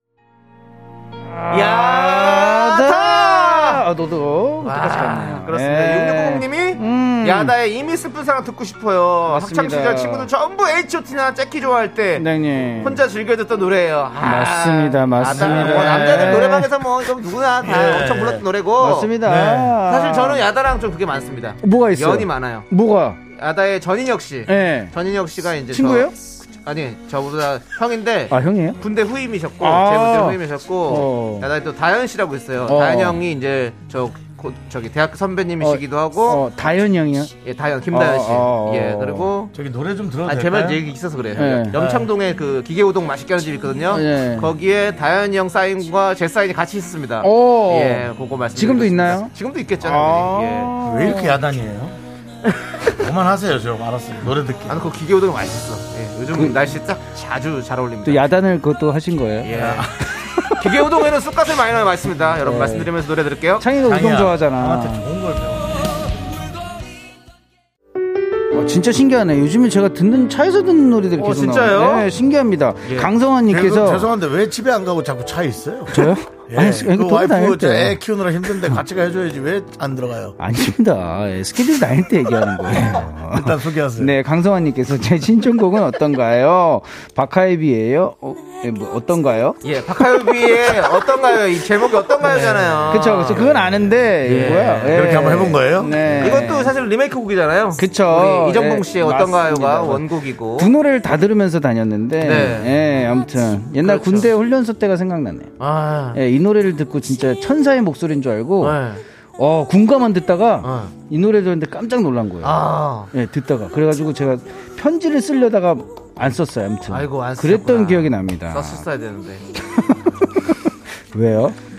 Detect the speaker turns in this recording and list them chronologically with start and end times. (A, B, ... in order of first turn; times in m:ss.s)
0:01.3-0:07.6 A
0:01.5-0:03.8 B
0:04.6-0:12.3 B
0:09.3-0:10.3 A
0:12.2-0:13.0 A
0:12.8-0:19.2 B
0:14.2-0:16.7 A
0:15.3-0:16.6 C
0:17.6-0:18.4 C
0:18.8-0:20.4 A
0:19.2-0:19.8 C
0:19.9-0:22.7 B
0:21.6-0:23.2 A
0:23.3-0:26.1 B
0:24.5-0:24.9 A
0:25.7-0:26.1 A
0:26.6-0:36.4 B
0:28.3-0:28.8 A
0:29.6-0:31.5 A
0:32.7-0:33.2 A
0:35.6-0:37.3 A
0:37.4-0:39.5 B
0:37.9-0:39.3 A
0:39.5-0:40.8 C
0:40.2-0:50.8 B
0:41.4-0:41.8 A
0:41.7-0:42.1 C
0:43.9-0:44.5 A
0:47.2-0:51.4 A
0:50.8-0:52.0 C
0:52.9-0:54.9 C
0:54.7-0:58.3 B
0:56.3-0:56.8 A
0:58.0-1:01.0 A
0:59.4-0:59.9 B
0:59.5-0:59.9 C
1:00.6-1:03.7 B
1:02.4-1:02.9 A
1:03.6-1:05.1 A
1:03.8-1:05.7 C
1:08.5-1:14.1 A
1:11.2-1:12.1 B
1:12.8-1:13.1 B
1:13.5-1:20.4 C
1:15.9-1:18.8 A
1:20.4-1:29.6 A
1:22.7-1:24.1 C
1:29.6-1:33.4 B
1:30.2-1:31.0 A
1:31.9-1:36.8 A
1:33.0-1:34.0 C
1:34.2-1:35.2 B
1:34.9-1:36.2 C
1:36.1-1:40.7 B
1:37.8-1:40.1 A
1:40.6-1:45.5 A
1:42.2-1:42.8 B
1:43.8-1:44.3 B
1:45.6-1:46.2 B
1:46.1-1:48.8 A
1:48.6-1:49.0 B
1:49.4-1:58.8 A
1:50.6-1:50.9 B
1:52.4-1:53.1 B
1:56.9-1:59.5 B
1:59.7-2:01.6 A